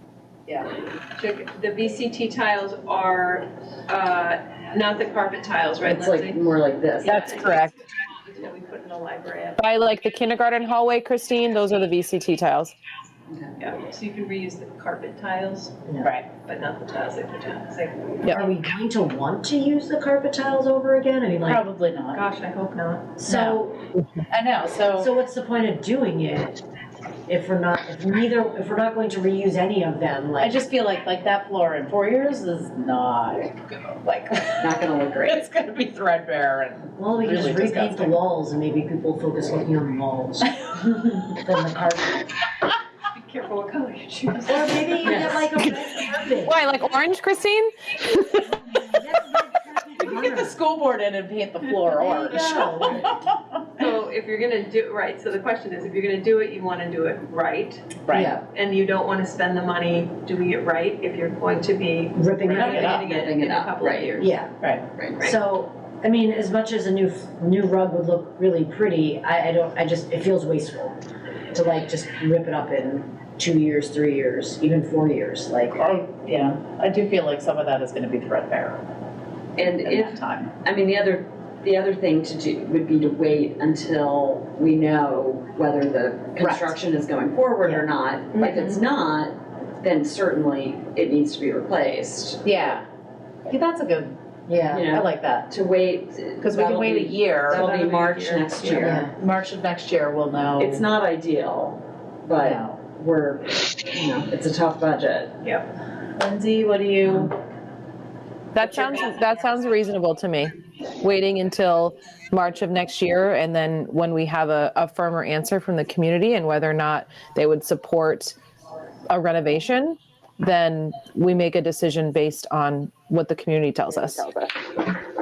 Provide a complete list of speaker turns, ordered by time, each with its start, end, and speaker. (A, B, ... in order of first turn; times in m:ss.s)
0:01.1-0:06.4 A
0:05.8-0:07.2 B
0:07.0-0:09.6 A
0:07.1-0:07.8 C
0:09.6-0:12.7 C
0:13.3-0:13.5 B
0:13.6-0:18.4 A
0:16.0-0:16.3 D
0:18.3-0:21.6 E
0:21.4-0:22.2 D
0:22.1-0:23.1 A
0:23.2-0:23.8 E
0:23.2-0:23.7 D
0:24.3-0:25.1 D
0:25.0-0:26.6 E
0:27.3-0:30.5 E
0:30.4-0:34.7 D
0:34.6-0:35.4 B
0:35.2-0:38.2 D
0:37.0-0:40.5 E
0:41.3-0:42.2 E
0:43.1-0:45.5 A
0:44.4-0:46.7 E
0:46.4-0:48.5 C
0:48.5-0:50.6 E
0:50.0-0:53.8 D
0:51.8-0:53.2 E
0:52.1-0:53.0 A
0:53.8-0:57.8 A
0:58.0-0:58.4 D
0:58.1-0:58.4 E
0:58.5-1:04.3 A
1:02.1-1:03.0 E
1:02.5-1:04.2 B
1:02.7-1:03.0 D
1:04.2-1:04.5 E
1:05.0-1:05.2 B
1:05.2-1:11.0 E
1:11.5-1:15.8 E
1:15.7-1:18.8 D
1:19.6-1:32.7 B
1:19.6-1:20.5 D
1:26.4-1:26.7 D
1:28.4-1:28.7 E
1:32.4-1:32.8 D
1:33.4-1:34.2 D
1:34.5-1:35.0 E
1:34.7-1:39.0 B
1:34.9-1:35.5 D
1:36.4-1:37.6 D
1:37.5-1:39.0 A
1:38.8-1:39.1 E
1:39.0-1:40.8 D
1:40.6-1:45.3 B
1:42.4-1:42.8 D
1:46.2-1:47.3 D
1:48.5-1:58.4 C
1:59.1-2:04.3 C